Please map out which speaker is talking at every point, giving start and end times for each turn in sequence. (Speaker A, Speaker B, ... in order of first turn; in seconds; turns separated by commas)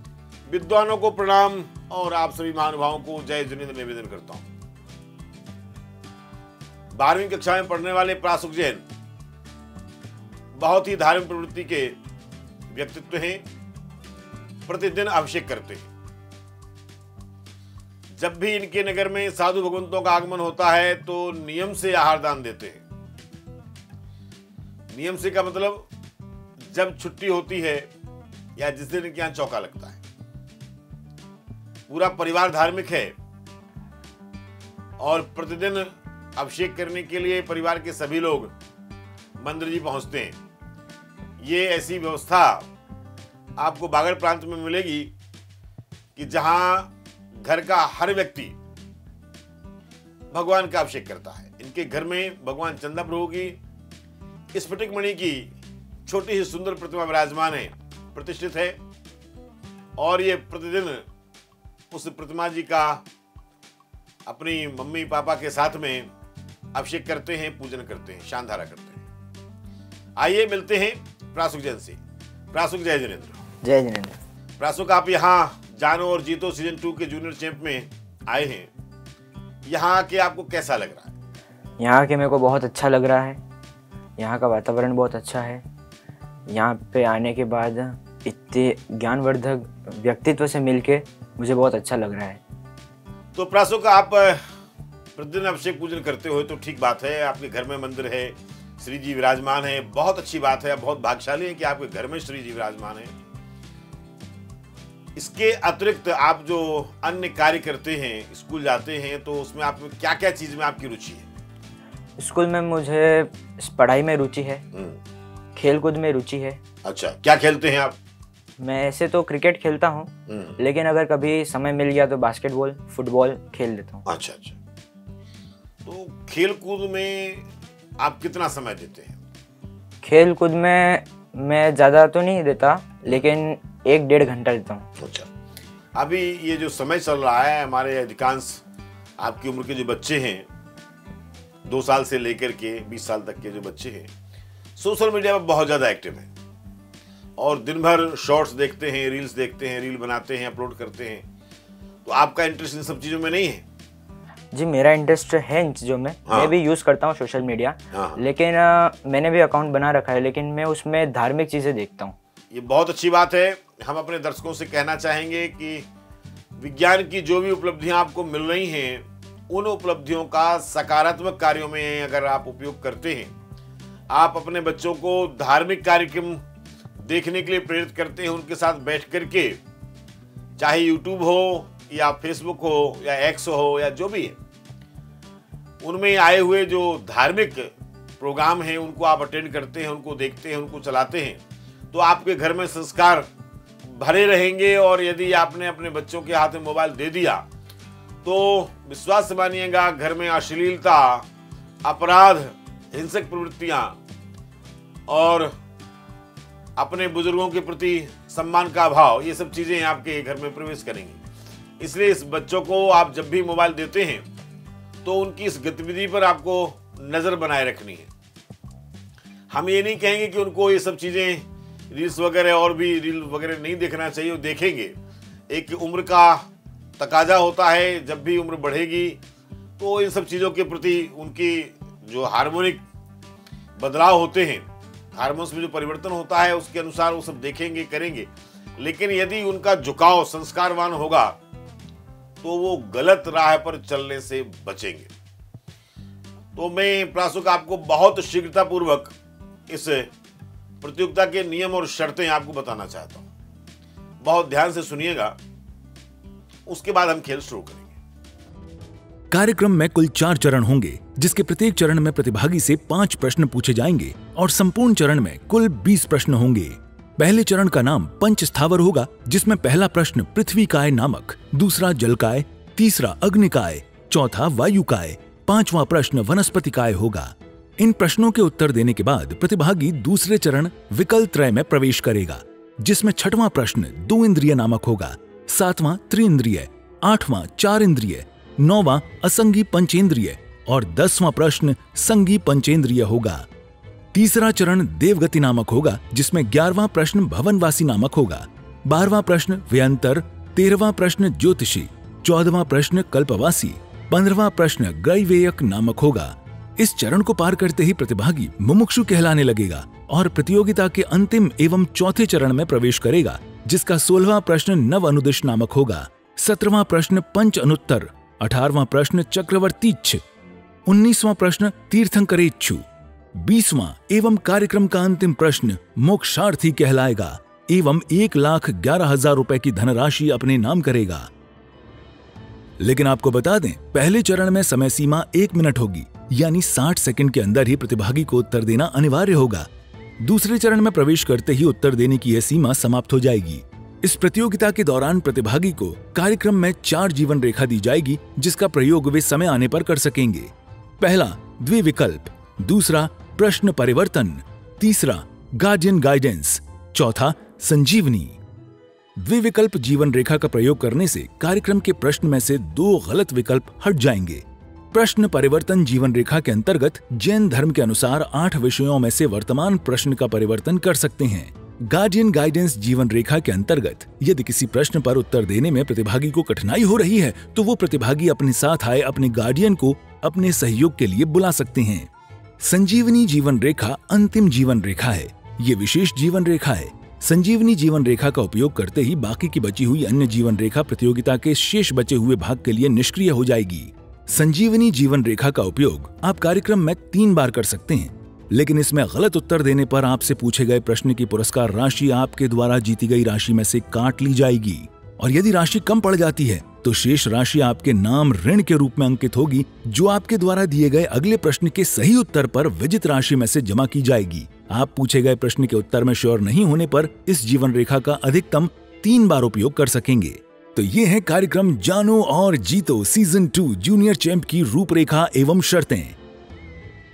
Speaker A: 0.5-4.5, Speaker A: 7.0-8.8, Speaker A: 10.6-12.0, Speaker A: 12.7-13.4, Speaker A: 14.7-15.9, Speaker A: 18.2-22.8, Speaker A: 24.9-25.9, Speaker A: 26.7-27.9, Speaker A: 28.6-30.0, Speaker A: 31.9-33.1, Speaker A: 35.0-38.5, Speaker A: 39.4-40.4, Speaker A: 41.4-42.7, Speaker A: 43.6-45.1, Speaker A: 46.2-48.6, Speaker A: 50.3-53.6, Speaker A: 54.5-55.5, Speaker A: 56.1-58.8, Speaker A: 60.0-61.0, Speaker A: 61.9-63.0, Speaker A: 64.3-66.1, Speaker A: 66.7-69.0, Speaker A: 70.2-72.0, Speaker A: 72.5-73.4, Speaker B: 73.6-74.2, Speaker A: 74.6-78.7, Speaker A: 79.7-81.1, Speaker B: 81.8-83.4, Speaker B: 84.2-85.6, Speaker B: 86.5-92.4, Speaker A: 93.3-94.4, Speaker A: 95.2-103.1, Speaker A: 105.2-111.2, Speaker B: 112.2-114.7, Speaker A: 114.7-115.0, Speaker B: 115.5-116.6, Speaker A: 116.8-118.0, Speaker B: 118.6-124.0, Speaker A: 120.3-120.6, Speaker A: 124.1-124.6, Speaker A: 125.9-127.5, Speaker A: 128.0-129.2, Speaker B: 130.0-134.9, Speaker A: 135.0-135.3, Speaker A: 136.0-138.6, Speaker A: 139.2-140.5, Speaker A: 141.7-144.1, Speaker A: 144.8-146.3, Speaker A: 147.4-151.3, Speaker A: 152.1-153.7, Speaker B: 154.5-162.2, Speaker A: 156.3-156.5, Speaker A: 157.9-158.2, Speaker A: 162.5-165.9, Speaker A: 166.6-173.3, Speaker A: 174.1-176.4, Speaker A: 177.0-179.6, Speaker A: 180.6-184.4, Speaker A: 185.8-191.4, Speaker A: 191.9-193.3, Speaker A: 193.9-197.5, Speaker A: 198.2-201.3, Speaker A: 201.8-204.0, Speaker A: 205.1-205.5, Speaker A: 206.8-211.2, Speaker A: 211.8-214.3, Speaker A: 215.0-218.1, Speaker A: 219.5-225.0, Speaker A: 225.5-226.5, Speaker A: 227.0-229.2, Speaker A: 229.8-232.8, Speaker A: 233.8-241.4, Speaker A: 242.4-245.1, Speaker A: 246.6-249.1, Speaker A: 249.7-250.1, Speaker A: 250.8-253.3, Speaker A: 254.2-255.4, Speaker A: 256.7-257.9, Speaker C: 259.3-293.5, Speaker C: 294.1-320.2, Speaker C: 320.9-322.8, Speaker C: 323.4-331.3, Speaker C: 332.8-339.7, Speaker C: 340.2-358.4, Speaker C: 359.2-382.1, Speaker C: 382.6-426.2